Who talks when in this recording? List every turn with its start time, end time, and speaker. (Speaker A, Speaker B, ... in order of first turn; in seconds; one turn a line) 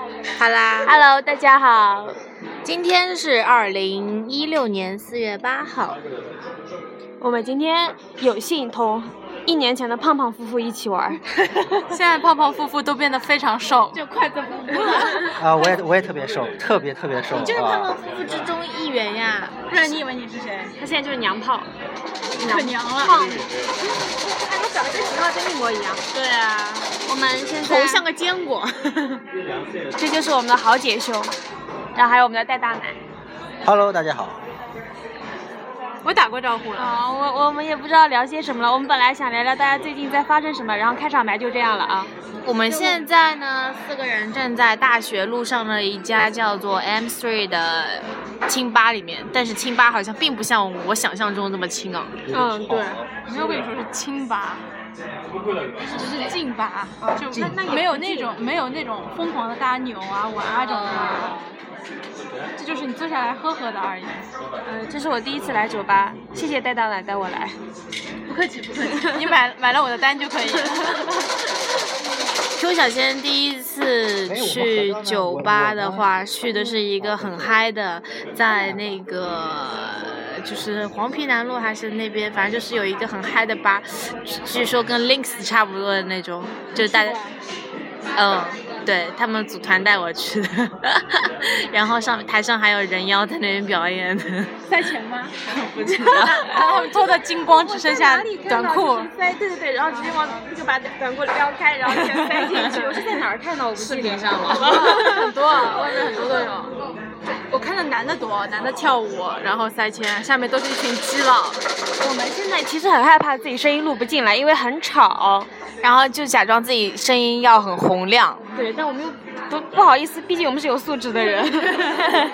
Speaker A: 0.4-0.9
Speaker B: 0.8-2.2
Speaker A: 2.6-6.0
Speaker B: 7.2-11.2
Speaker C: 11.9-15.7
Speaker A: 14.5-15.2
Speaker D: 15.4-17.9
Speaker A: 17.3-19.6
Speaker C: 19.7-20.8
Speaker B: 20.8-21.7
Speaker B: 22.4-23.5
Speaker C: 22.4-23.2
Speaker B: 24.2-26.0
Speaker C: 26.1-26.8
Speaker B: 27.1-28.0
Speaker A: 27.6-29.2
Speaker B: 30.0-31.3
Speaker B: 32.0-33.0
Speaker D: 33.6-34.4
Speaker C: 36.0-37.0
Speaker B: 36.8-42.1
Speaker A: 42.5-52.2
Speaker C: 42.6-43.0
Speaker D: 52.2-53.0
Speaker B: 52.3-52.7
Speaker C: 52.5-54.6
Speaker C: 55.8-61.5
Speaker B: 57.0-58.3
Speaker D: 57.3-57.7
Speaker A: 60.7-61.3
Speaker C: 62.6-64.3
Speaker B: 64.7-67.6
Speaker C: 68.3-71.1
Speaker A: 72.5-87.2
Speaker D: 74.3-76.1
Speaker D: 77.0-77.5
Speaker C: 86.8-87.4
Speaker A: 88.2-94.5
Speaker C: 94.7-95.4
Speaker A: 95.5-96.6
Speaker B: 95.8-106.7
Speaker C: 96.1-99.1
Speaker C: 99.9-100.4
Speaker C: 102.0-103.0
Speaker A: 102.4-102.9
Speaker A: 103.7-105.2
Speaker C: 104.5-106.7
Speaker C: 107.3-111.6
Speaker B: 112.0-115.5
Speaker A: 115.8-118.4
Speaker B: 118.5-122.1